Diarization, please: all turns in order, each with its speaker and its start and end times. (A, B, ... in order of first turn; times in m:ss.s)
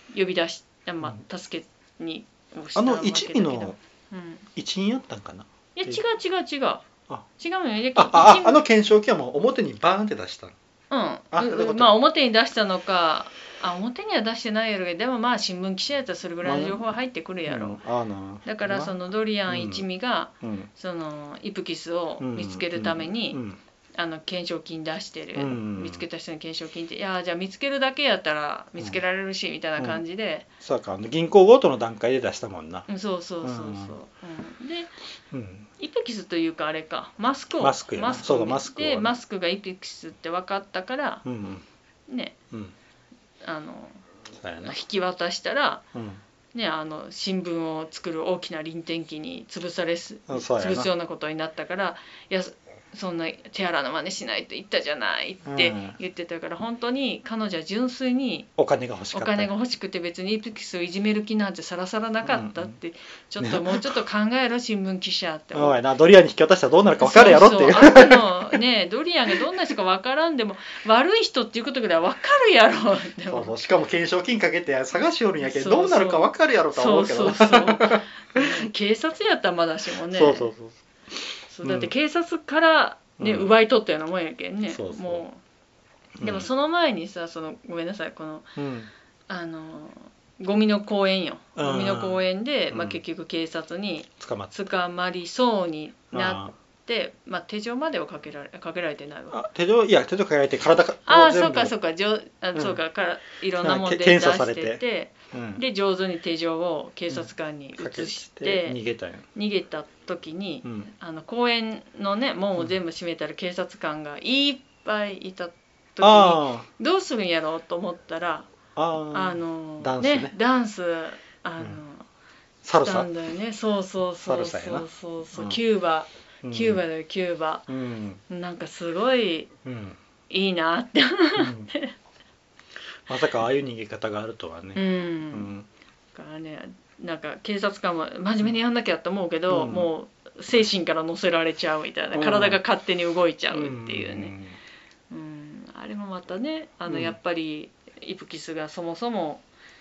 0:00.1-0:04.4 A
0:02.7-0:03.8 B
0:04.6-0:06.0 B
0:05.8-0:06.8 A
0:07.4-0:08.6 A
0:07.9-0:10.5 B
0:10.9-0:17.8 A
0:11.3-0:12.0 B
0:16.4-0:16.8 B
0:17.5-0:19.0 B
0:18.4-0:23.4 A
0:19.5-0:19.8 B
0:20.4-0:20.7 B
0:22.2-0:23.6 B
0:24.0-0:30.5 A
0:25.4-0:26.0 B
0:30.6-0:32.8 B
0:32.9-0:34.9 A
0:33.4-0:34.0 B
0:35.3-0:35.7 B
0:35.8-0:41.2 A
0:37.6-0:39.2 B
0:41.2-0:41.6 B
0:42.1-0:42.4 A
0:43.4-0:44.0 A
0:44.4-0:44.8 B
0:44.6-0:45.8 A
0:45.9-0:46.2 B
0:46.5-0:58.5 A
0:50.3-0:50.9 B
0:55.4-0:56.0 B
0:58.6-0:59.5 B
0:59.1-1:05.8 A
1:02.2-1:02.8 B
1:03.4-1:03.9 B
1:05.5-1:08.6 B
1:07.0-1:13.5 A
1:13.3-1:18.7 B
1:15.4-1:20.5 A
1:20.1-1:20.8 B
1:21.5-1:25.4 A
1:21.6-1:21.9 B
1:23.2-1:23.5 B
1:24.7-1:25.2 B
1:26.2-1:26.5 B
1:26.2-1:28.5 A
1:28.6-1:28.9 B
1:29.3-1:39.4 A
1:31.6-1:33.0 B
1:34.2-1:34.6 B
1:36.1-1:36.5 B
1:39.3-1:41.7 B
1:41.0-1:48.8 A
1:43.6-1:44.8 B
1:45.3-1:45.6 B
1:47.1-1:49.2 B
1:49.3-1:58.5 A
1:50.6-1:50.9 B
1:56.0-1:56.6 B
1:58.7-2:00.3 B
1:59.1-2:02.0 A
2:02.6-2:03.1 B
2:02.8-2:07.7 A
2:04.2-2:05.6 B
2:06.4-2:06.8 B
2:07.7-2:08.2 B
2:08.3-2:09.5 A
2:09.6-2:10.0 B
2:10.3-2:11.9 A
2:11.4-2:11.7 B
2:13.1-2:15.7 B
2:14.7-2:15.5 A
2:16.1-2:24.3 A
2:19.5-2:19.9 B
2:22.1-2:22.6 B
2:23.5-2:24.6 B
2:25.1-2:29.4 A
2:26.9-2:27.1 B